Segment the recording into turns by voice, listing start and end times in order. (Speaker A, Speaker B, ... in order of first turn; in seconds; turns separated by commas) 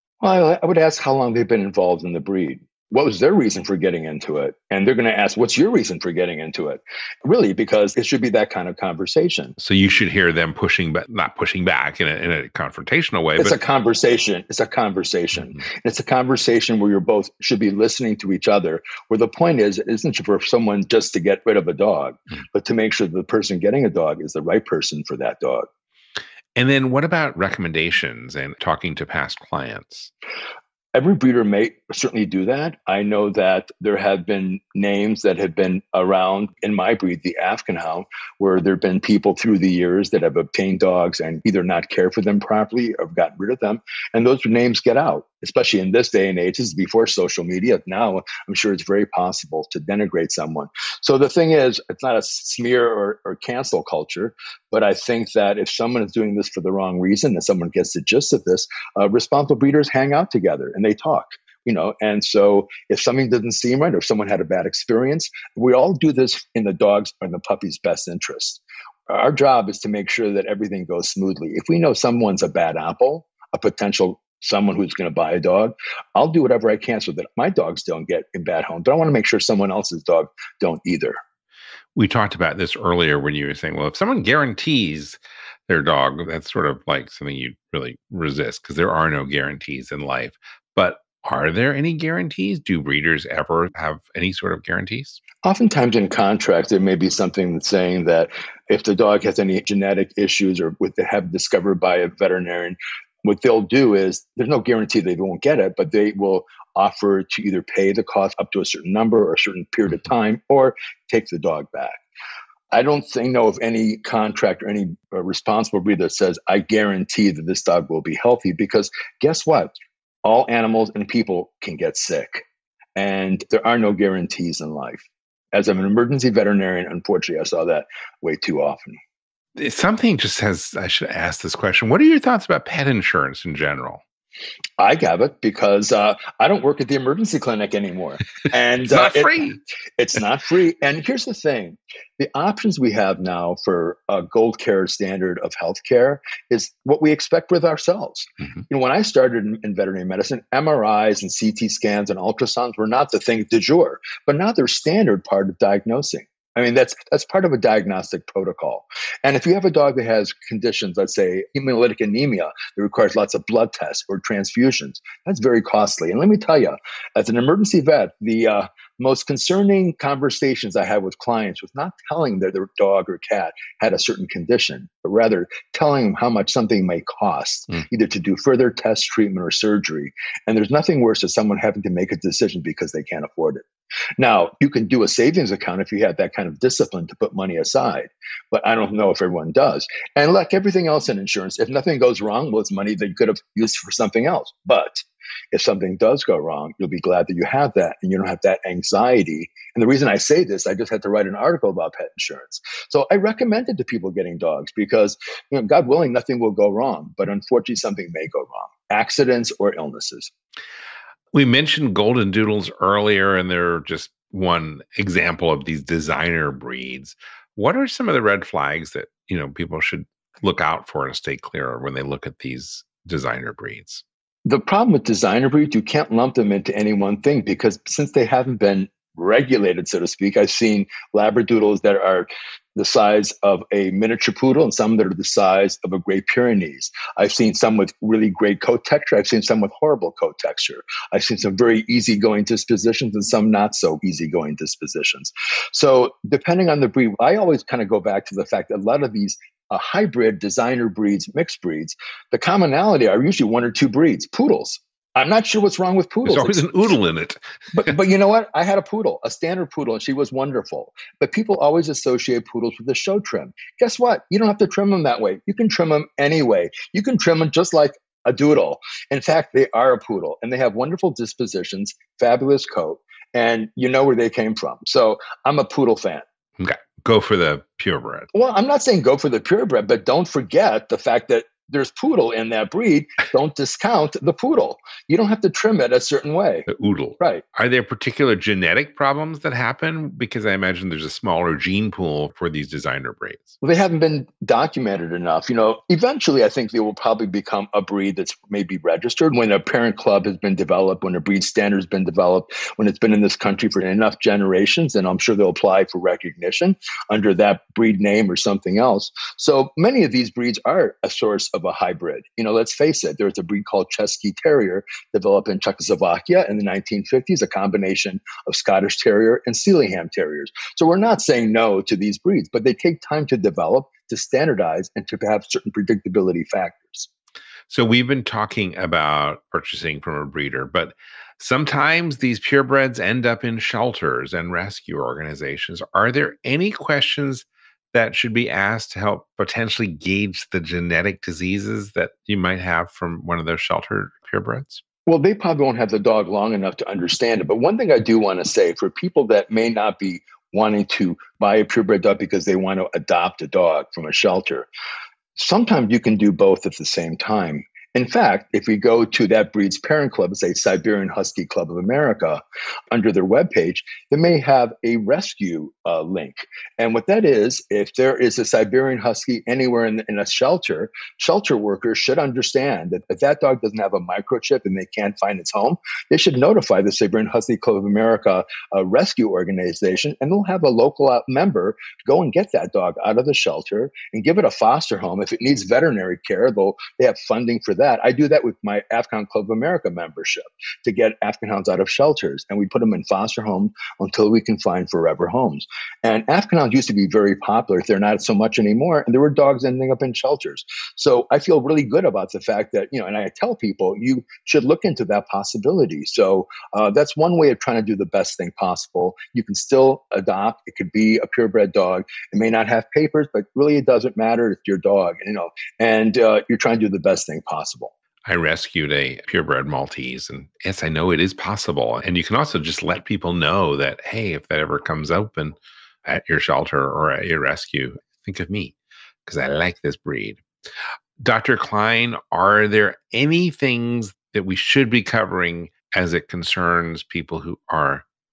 Speaker A: 0.2-9.6, Speaker B: 9.6-13.6, Speaker A: 13.4-25.7, Speaker B: 26.6-30.1, Speaker A: 30.9-81.2, Speaker B: 82.0-95.2, Speaker A: 95.4-112.0, Speaker A: 112.7-119.7, Speaker A: 120.2-122.4, Speaker A: 123.0-129.0, Speaker B: 129.6-134.0, Speaker A: 134.8-183.7, Speaker B: 138.9-139.6, Speaker A: 184.2-210.3, Speaker B: 211.3-224.0, Speaker A: 224.5-256.6, Speaker B: 256.2-257.9, Speaker A: 257.7-276.2, Speaker B: 276.6-278.3, Speaker A: 278.3-286.7, Speaker B: 286.7-293.6, Speaker A: 293.6-327.1, Speaker B: 327.7-344.8, Speaker A: 345.1-354.7, Speaker A: 355.4-417.9, Speaker B: 418.3-430.4, Speaker B: 431.2-438.1